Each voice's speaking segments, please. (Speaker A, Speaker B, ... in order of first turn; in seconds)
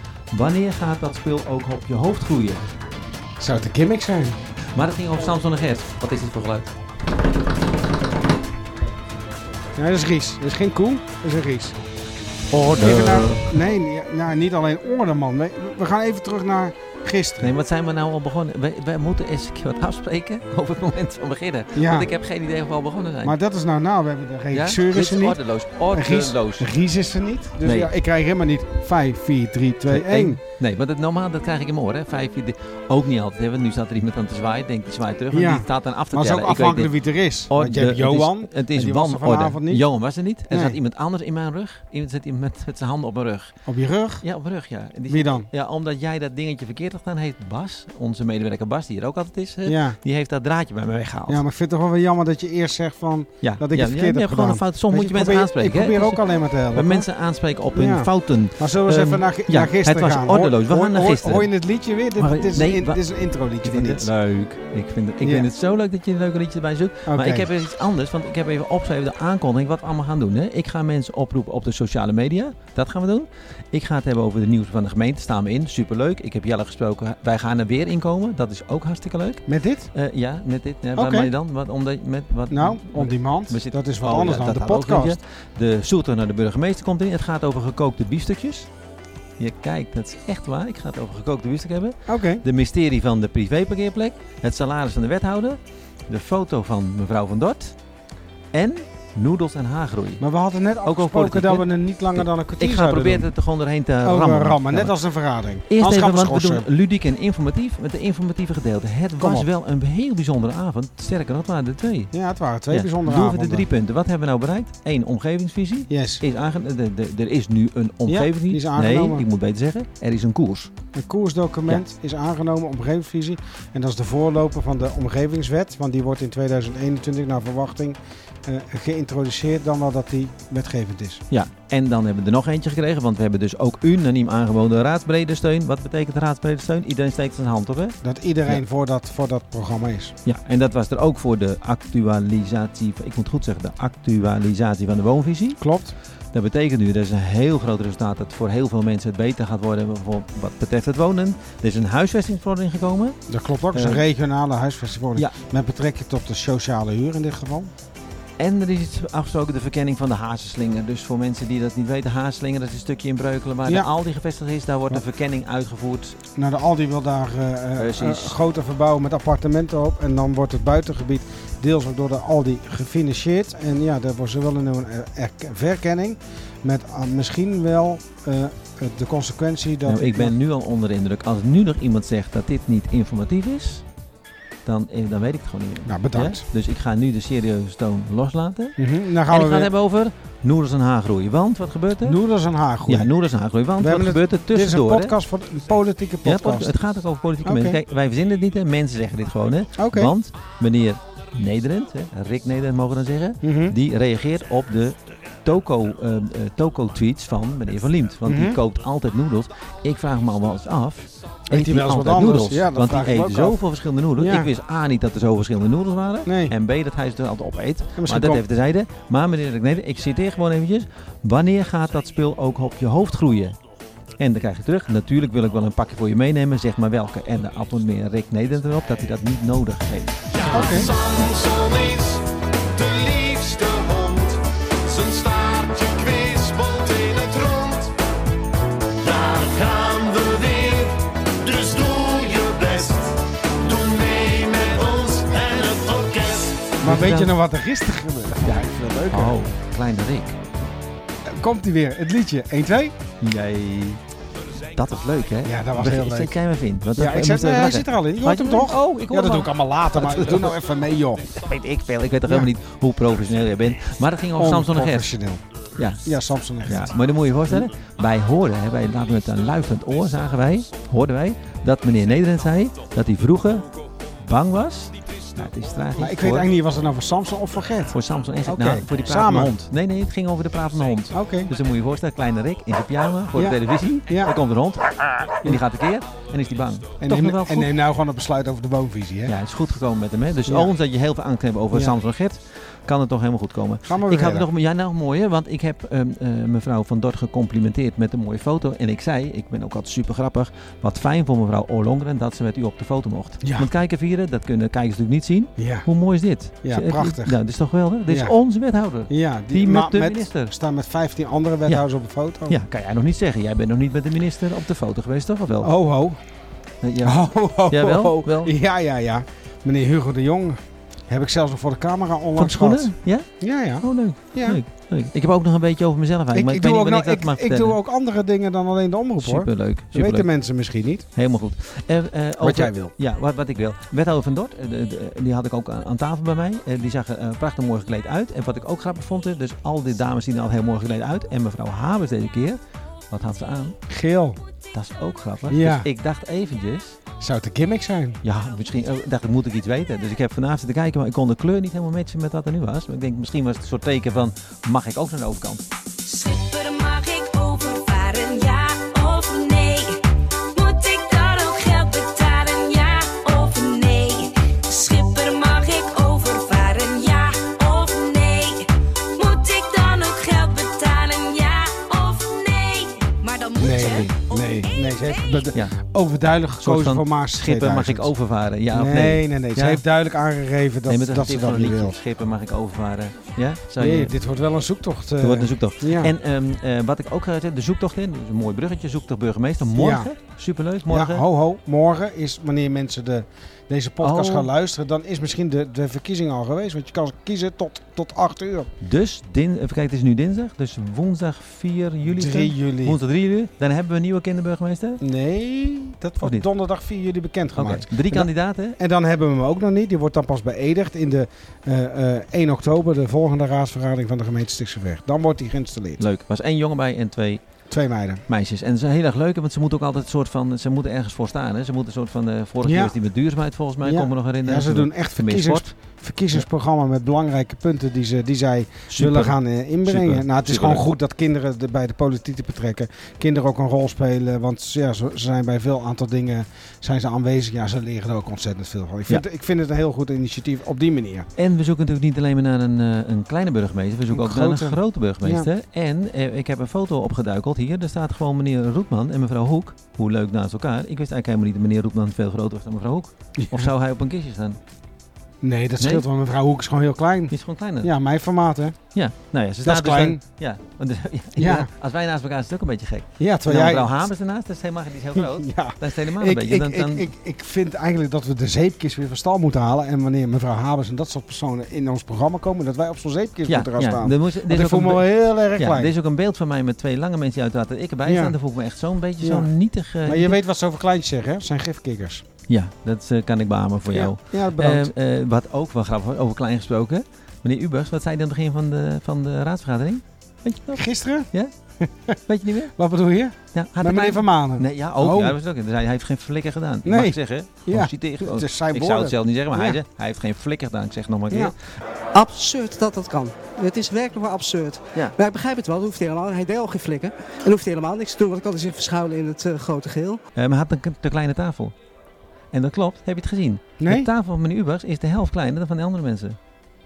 Speaker A: 0.3-2.6, 4.7-6.7, 12.5-13.5, 17.4-23.4, 24.5-26.7, 27.6-27.9, 29.9-36.9, 37.5-43.6, 44.2-51.4, 53.4-61.5, 62.2-63.0, 63.6-88.7, 89.4-97.8, 98.5-100.2, 100.8-105.0, 105.7-112.1, 112.7-120.7, 131.3-138.6, 140.2-145.6, 146.3-153.2, 153.7-154.1, 158.4-166.2, 167.8-168.4, 179.9-183.8, 184.7-188.8, 189.3-192.2, 192.9-195.2, 196.2-223.6, 224.2-231.2, 246.8-247.4, 248.5-250.4, 253.2-254.0, 254.7-260.6, 261.3-265.1, 265.8-266.1, 266.6-273.7, 274.2-276.5, 277.9-287.7, 289.3-310.5, 312.5-315.7, 316.8-318.5, 322.4-327.8, 329.2-330.3, 331.1-342.6, 343.1-343.8, 344.7-347.0, 348.2-355.6, 373.8-374.1, 376.6-379.8, 380.9-384.1, 385.2-391.2, 394.0-394.5, 398.8-405.0, 406.2-406.5, 407.6-408.8, 416.0-417.4, 418.3-425.8, 428.9-430.9, 441.4-454.6, 455.8-456.1, 457.3-457.9, 458.9-467.1, 473.5-480.4, 482.5-491.5, 492.3-492.7, 493.5-501.6, 510.4-511.7, 512.5-516.4
Speaker B: 3.4-4.4, 9.8-11.8, 12.8-17.5, 21.7-22.1, 23.2-25.4, 25.9-30.4, 35.3-39.8, 40.5-40.8, 43.7-44.2, 45.1-45.5, 49.6-50.0, 51.3-57.1, 57.7-64.1, 65.2-65.5, 67.1-67.5, 79.5-79.9, 81.0-81.3, 82.5-85.2, 92.1-92.4, 100.2-103.3, 104.0-106.7, 109.2-109.5, 112.1-113.7, 115.9-116.2, 118.1-119.2, 120.9-131.2, 138.0-140.2, 145.6-146.0, 153.3-157.7, 166.3-180.3, 185.9-186.4, 188.8-189.7, 192.0-193.1, 193.8-196.8, 197.4-197.8, 199.8-200.1, 203.4-203.8, 208.2-208.6, 211.5-213.6, 214.2-214.5, 216.3-216.5, 218.0-218.4, 230.4-231.0, 246.8-249.4, 251.3-253.0, 255.4-256.4, 257.0-261.3, 264.4-265.4, 266.0-266.9, 276.0-277.9, 278.4-279.6, 281.1-281.5, 283.3-284.3, 287.0-289.4, 290.5-290.7, 293.9-294.5, 303.4-303.7, 305.6-305.9, 306.6-307.4, 308.1-308.3, 309.1-312.6, 315.6-316.2, 317.0-324.6, 326.3-331.1, 332.4-332.9, 343.9-344.4, 345.5-345.9, 347.2-348.2, 373.6-378.1, 378.7-382.0, 383.8-386.1, 389.8-390.1, 390.9-398.7, 402.1-403.0, 405.0-416.0, 417.7-418.2, 422.6-423.0, 423.8-441.3, 444.1-445.5, 453.4-453.7, 455.4-458.8, 459.6-460.2, 461.4-461.7, 463.2-464.0, 465.2-475.9, 478.1-478.4, 479.2-479.5, 480.1-482.2, 483.9-484.9, 490.8-491.3, 491.8-492.2, 492.8-495.4, 496.9-499.8, 513.8-514.1
Speaker C: 231.2-232.0, 232.8-237.9, 239.0-246.4
Speaker D: 233.4-234.1, 242.1-242.9, 244.6-244.9, 245.5-246.6, 502.1-510.2
Speaker E: 356.1-375.4